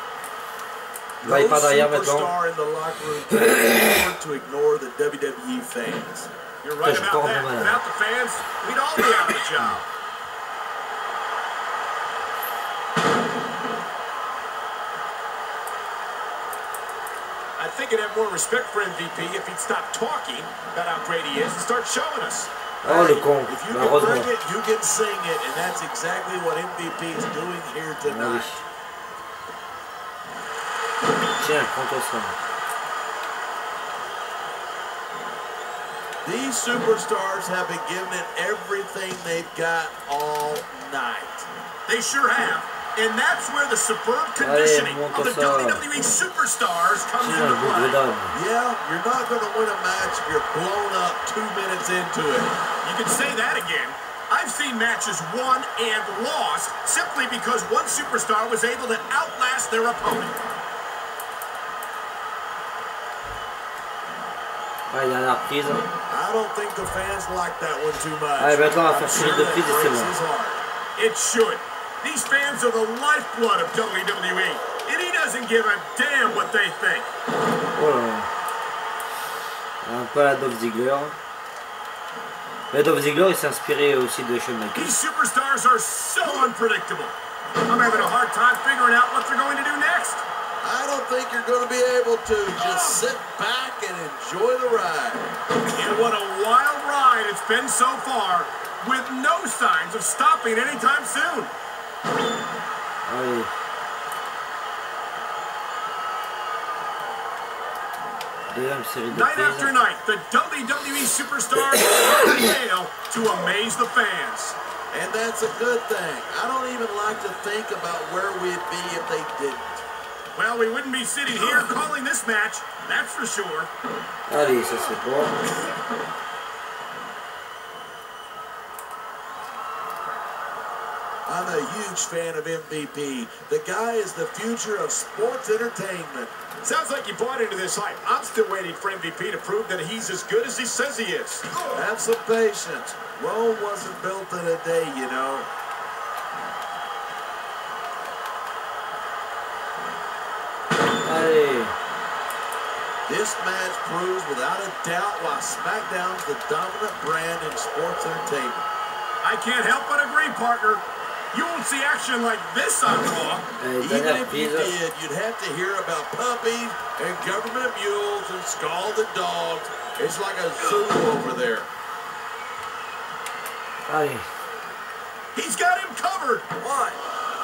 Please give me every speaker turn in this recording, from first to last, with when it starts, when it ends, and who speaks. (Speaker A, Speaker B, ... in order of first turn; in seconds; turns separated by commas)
Speaker A: 1.2-6.3, Speaker B: 1.2-2.3, Speaker C: 6.6-9.9, Speaker B: 6.8-7.8, Speaker C: 17.6-22.5, Speaker B: 22.8-24.3, Speaker A: 22.8-28.6, Speaker B: 28.0-28.6, Speaker B: 31.4-32.4, Speaker A: 36.2-41.5, Speaker C: 41.9-48.0, Speaker B: 44.4-45.9, Speaker B: 47.2-48.4, Speaker A: 48.3-52.6, Speaker C: 52.8-60.4, Speaker B: 64.9-65.9, Speaker A: 66.1-70.6, Speaker B: 68.4-70.1, Speaker C: 71.0-77.1, Speaker B: 77.7-78.3, Speaker B: 79.8-81.2, Speaker B: 82.7-85.0, Speaker C: 84.8-90.2, Speaker A: 90.6-95.3, Speaker C: 92.5-93.1, Speaker C: 95.7-101.5, Speaker B: 103.0-103.5, Speaker B: 108.5-109.7, Speaker C: 109.1-114.6, Speaker B: 111.7-112.5, Speaker A: 114.9-119.8, Speaker C: 120.3-123.7, Speaker B: 124.3-125.3, Speaker A: 131.3-136.3, Speaker C: 136.6-141.5, Speaker A: 141.7-145.5, Speaker B: 151.0-151.8, Speaker A: 153.1-158.7, Speaker C: 159.2-163.5, Speaker B: 163.6-164.8, Speaker A: 163.8-171.7, Speaker C: 170.6-170.9, Speaker B: 173.9-174.3, Speaker C: 175.3-176.5, Speaker A: 176.6-177.0